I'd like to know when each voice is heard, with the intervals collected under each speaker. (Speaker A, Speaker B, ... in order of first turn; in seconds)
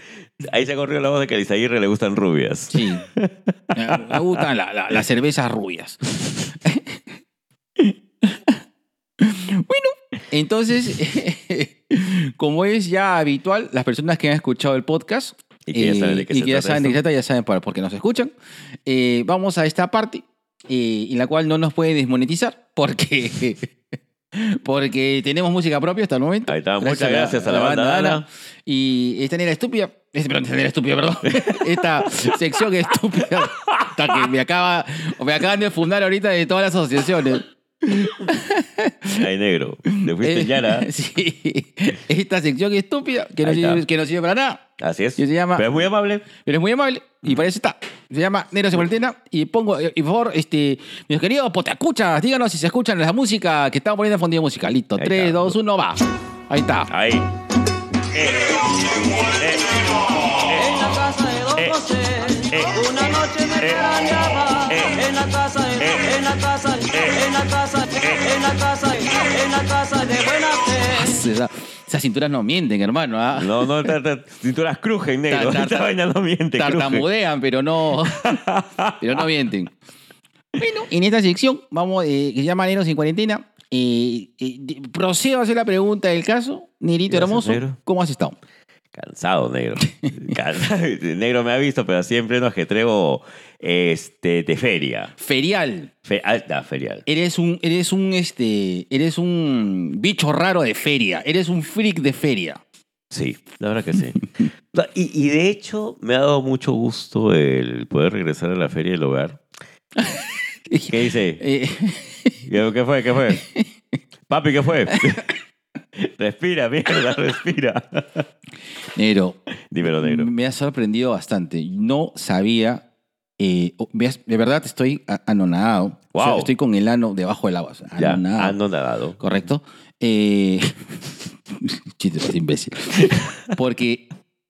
Speaker A: 0.4-4.2, 15.7-17.0, 26.5-28.2, 31.3-32.1, 33.3-33.9, 39.1-40.9, 43.4-43.8, 44.8-46.2, 55.0-55.6, 56.9-57.3, 58.1-58.7, 59.2-59.7, 62.5-62.9, 63.6-63.9, 64.7-65.0, 65.8-66.0, 73.3-77.0, 78.2-79.1, 87.1-87.8, 88.9-95.1, 96.0-97.0, 103.1-104.2, 104.7-109.4, 110.9-111.4, 112.5-113.4, 114.3-115.3, 116.0-118.3, 119.7-120.3, 126.1-126.5, 128.0-129.2
Speaker B: 2.7-3.1, 3.7-6.1, 6.6-7.0, 7.8-8.6, 9.2-18.3, 18.9-23.7, 24.3-39.2, 39.9-44.6, 45.2-45.8, 46.3-56.9, 70.9-73.9, 75.3-75.9, 76.6-78.4, 79.0-79.7, 80.6-88.3, 95.2-95.9, 97.0-102.6, 110.0-112.4, 113.3-113.7, 114.9-115.2, 119.0-122.8, 123.4-128.6, 129.2-131.0, 131.5-134.1
Speaker C: 60.5-71.2